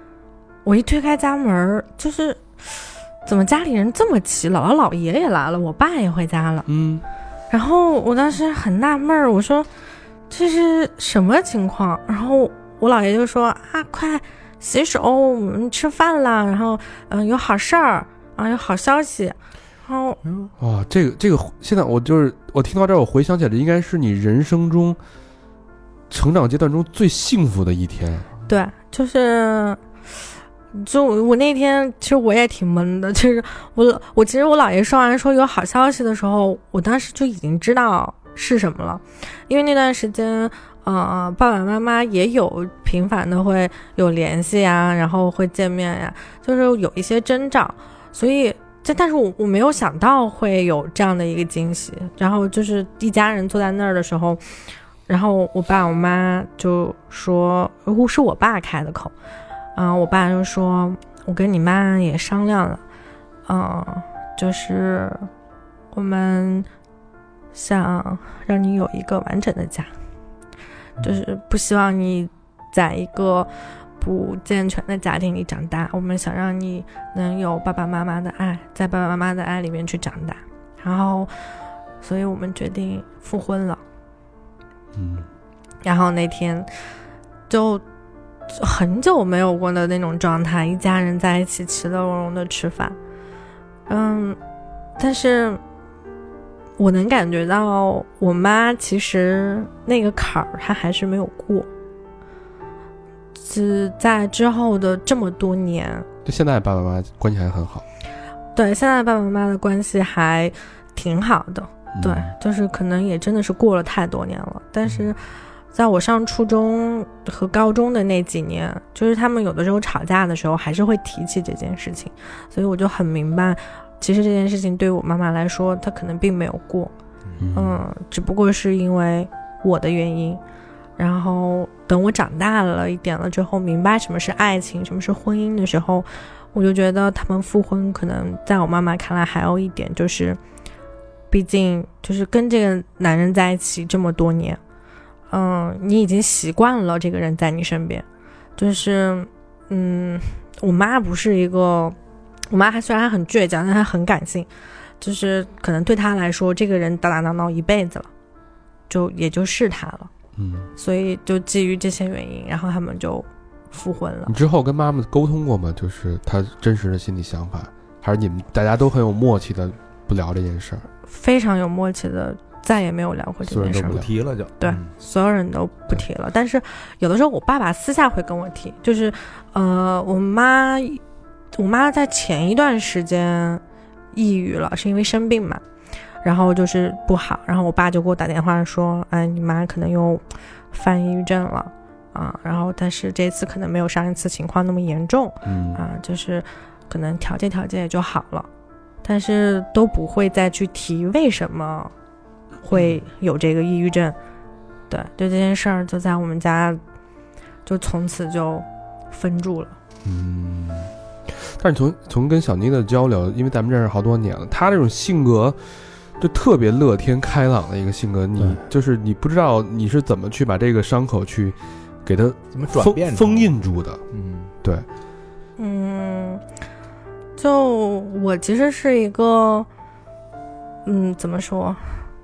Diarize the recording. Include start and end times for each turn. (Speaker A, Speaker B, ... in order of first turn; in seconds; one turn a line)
Speaker A: 0.7-6.7
Speaker B: 6.7-7.0
Speaker A: 7.5-9.7
Speaker A: 10.3-20.2
Speaker C: 20.2-20.5
Speaker B: 20.6-25.0
Speaker B: 26.1-28.3
Speaker A: 28.5-29.8
Speaker A: 30.7-54.4
Speaker A: 55.1-59.1
Speaker A: 59.8-62.8
Speaker A: 63.5-65.3
Speaker A: 65.9-66.7
Speaker A: 67.5-69.9
Speaker A: 71.0-73.5
Speaker A: 74.0-81.3
Speaker A: 82.0-83.8
Speaker B: 85.0-85.3
Speaker A: 85.8-86.7
Speaker A: 87.5-87.8
Speaker A: 88.5-93.0
Speaker A: 93.9-94.4
Speaker A: 95.0-95.6
Speaker A: 96.8-101.7
Speaker A: 103.4-106.1
Speaker B: 106.2-107.8
Speaker A: 108.5-115.2
Speaker B: 111.9-112.3
Speaker A: 115.7-126.9
Speaker B: 127.4-127.8
Speaker A: 127.5-130.4
Speaker A: 131.0-140.4
Speaker A: 141.3-144.6
Speaker A: 145.3-148.1
Speaker A: 148.6-152.0
Speaker A: 152.5-154.5
Speaker A: 155.0-158.1
Speaker A: 158.9-160.1
Speaker B: 160.4-160.7
Speaker A: 160.8-164.3
Speaker B: 164.3-170.9
Speaker A: 171.1-174.0
Speaker B: 173.4-174.1
Speaker C: 173.8-174.9
Speaker A: 174.6-181.0
Speaker A: 181.5-183.6
Speaker A: 184.1-185.6
Speaker A: 186.2-198.5
Speaker B: 195.4-195.8
Speaker A: 199.0-201.9
Speaker A: 202.6-204.2
Speaker B: 202.7-203.0
Speaker A: 204.9-206.8
Speaker A: 207.7-209.8
Speaker B: 210.1-215.6
Speaker B: 216.2-224.0
Speaker C: 222.5-223.5
Speaker C: 224.1-224.5
Speaker A: 225.6-226.4
Speaker A: 227.4-229.7
Speaker A: 230.8-232.0